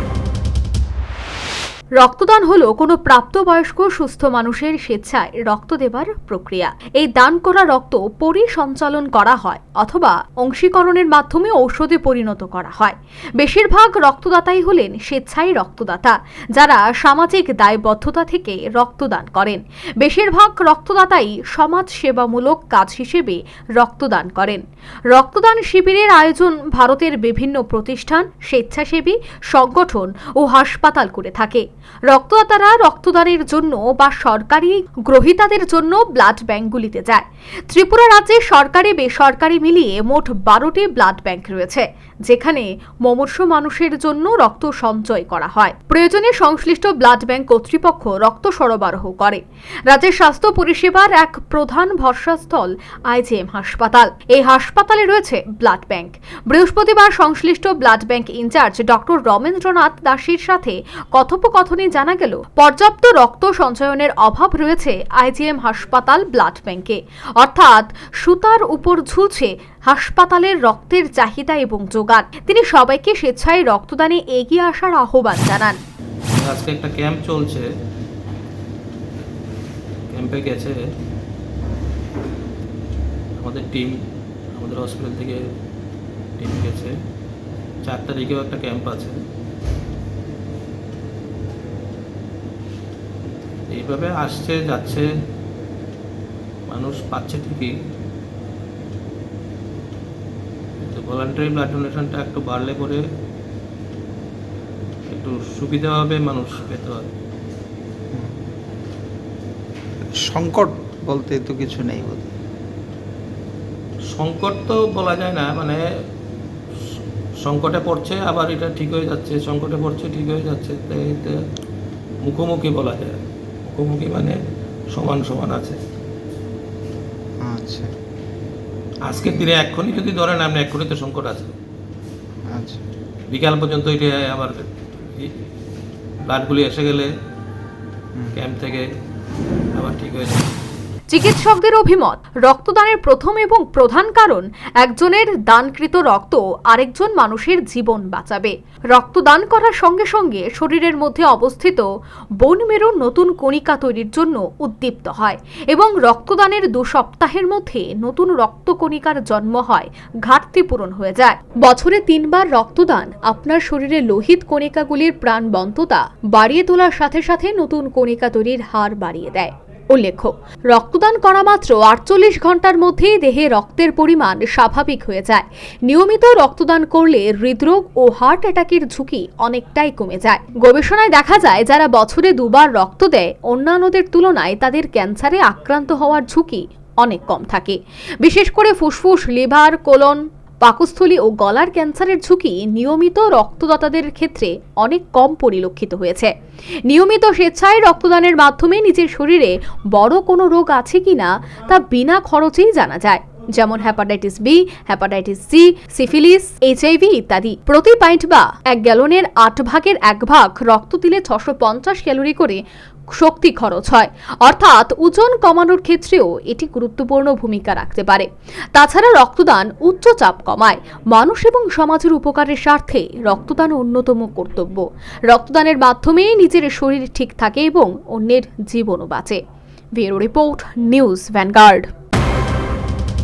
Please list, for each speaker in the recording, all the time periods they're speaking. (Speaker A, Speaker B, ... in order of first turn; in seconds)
Speaker A: 2.0-75.8, 141.1-151.8, 152.4-196.3, 196.9-212.6, 213.1-229.4, 229.9-231.9
Speaker B: 76.4-77.6, 80.1-80.7, 83.4-84.0, 84.5-85.4, 86.4-86.9, 87.8-89.2, 93.7-95.0, 96.7-97.7, 100.8-103.0, 105.1-107.1, 114.1-115.8, 117.4-121.4, 122.2-124.4, 124.9-125.8, 129.1-131.5, 133.3-135.3, 136.2-137.1, 138.3-138.9, 139.7-140.5
Speaker C: 108.1-108.4, 110.3-112.3, 127.4-127.9, 132.5-132.8